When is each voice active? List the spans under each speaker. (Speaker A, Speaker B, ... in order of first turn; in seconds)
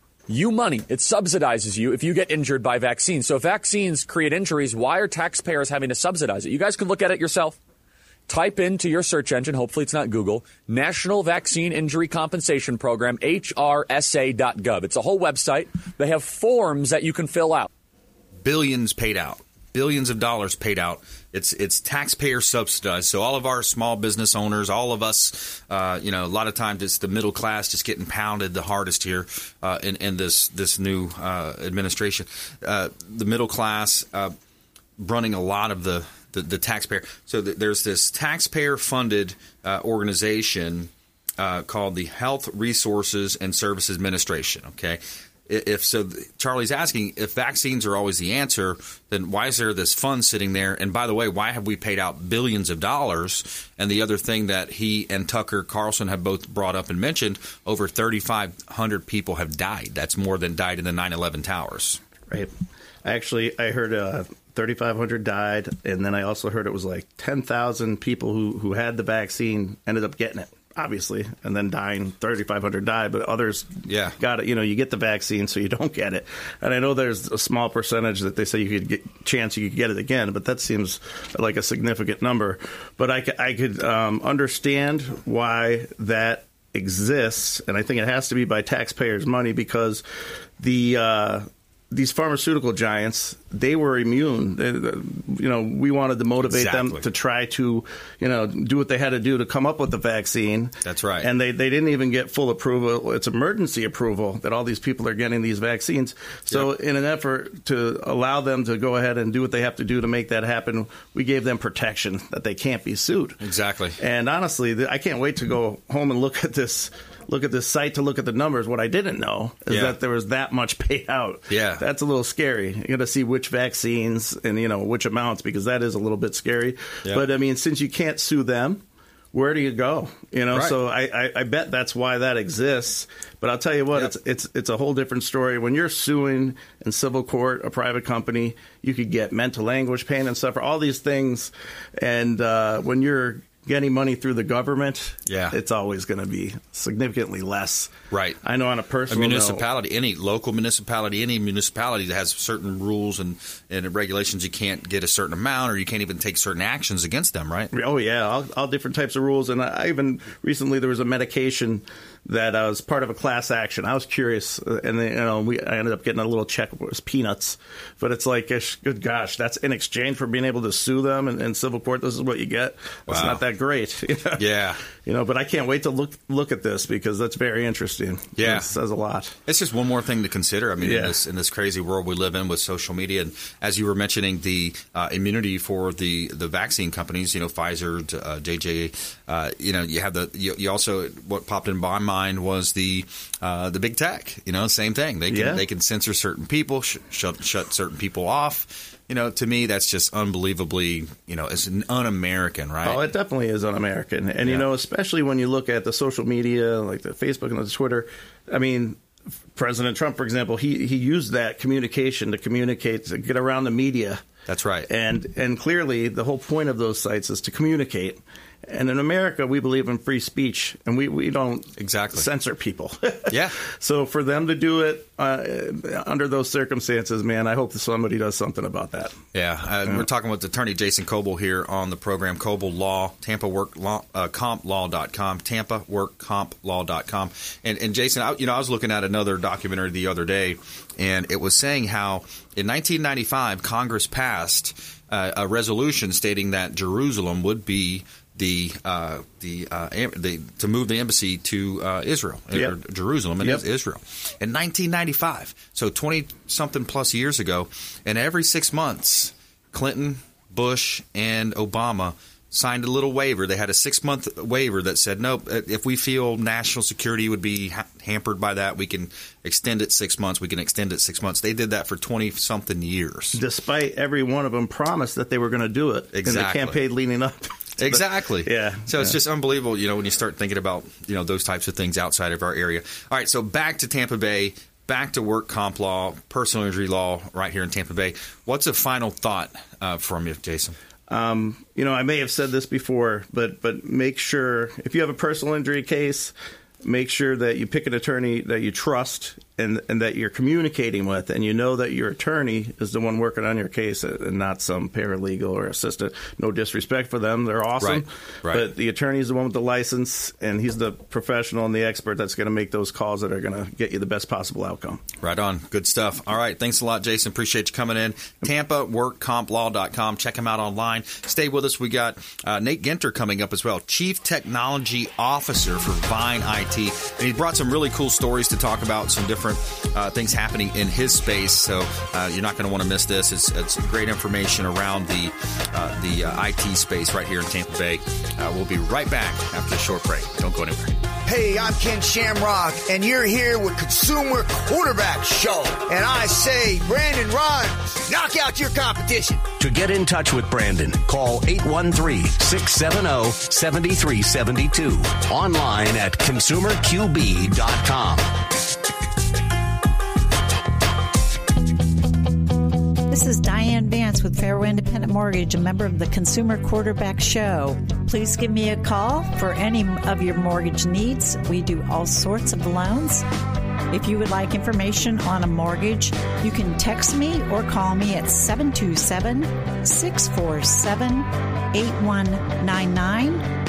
Speaker A: 0.3-7.6, 8.3-17.7
Speaker B: 18.4-34.3, 35.0-62.0, 73.9-74.2, 96.4-97.0, 100.8-101.3, 113.4-114.0, 119.7-120.0, 121.5-121.8, 145.3-145.6, 148.1-148.4, 149.1-157.7, 173.1-173.4, 174.3-174.8, 178.4-178.7, 179.4-203.0, 214.5-214.9, 221.8-222.3, 223.3-223.6, 229.3-273.4, 276.1-276.8, 277.8-290.8, 307.8-308.7, 315.2-340.9
Speaker C: 62.3-62.5, 63.0-90.0, 90.6-113.4, 114.0-147.9, 148.4-149.6, 157.7-174.4, 175.0-179.3, 180.8-181.2, 195.3-195.6, 202.8-209.0, 209.5-214.2, 214.9-229.1, 273.3-279.2, 291.1-315.0
Speaker D: 341.2-349.4
Speaker E: 349.6-358.3
Speaker F: 363.1-373.2, 373.9-383.4